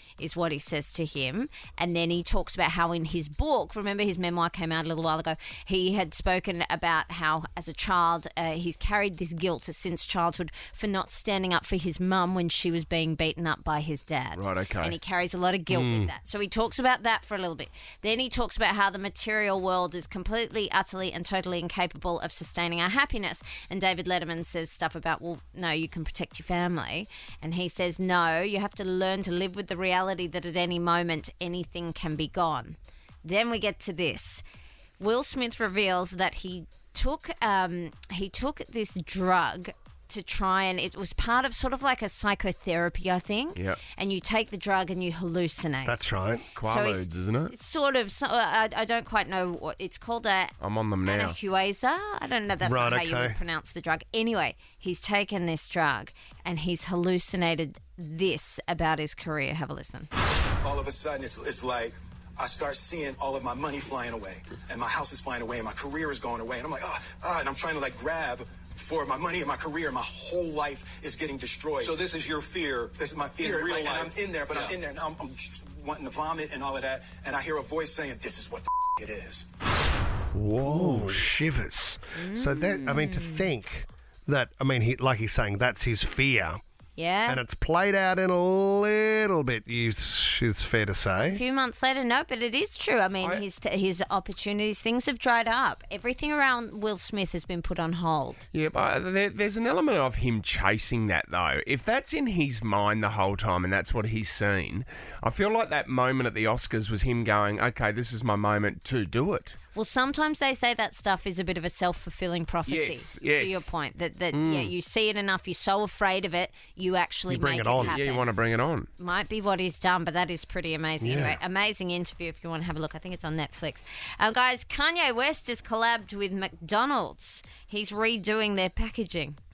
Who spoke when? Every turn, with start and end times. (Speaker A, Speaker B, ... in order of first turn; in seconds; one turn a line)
Speaker A: 0.2-34.4
Speaker B: 14.3-15.0
Speaker C: 15.7-16.1
Speaker A: 35.0-46.0
Speaker B: 43.5-43.8
Speaker C: 45.8-46.5
Speaker B: 46.5-47.5
Speaker A: 46.6-60.1
Speaker B: 50.6-51.4
Speaker C: 52.6-53.4
Speaker D: 60.6-72.0
Speaker E: 71.8-72.7
Speaker D: 72.9-79.5
Speaker E: 73.5-74.7
Speaker C: 80.3-86.6
Speaker B: 80.6-81.2
Speaker A: 82.1-83.5
Speaker A: 87.0-87.4
Speaker C: 87.3-91.4
Speaker A: 91.2-98.5
Speaker B: 98.5-109.6
Speaker A: 109.7-118.3
Speaker B: 112.7-113.7
Speaker C: 114.3-114.7
Speaker C: 117.3-118.0
Speaker B: 117.8-118.9
Speaker A: 119.0-129.4
Speaker C: 121.0-121.4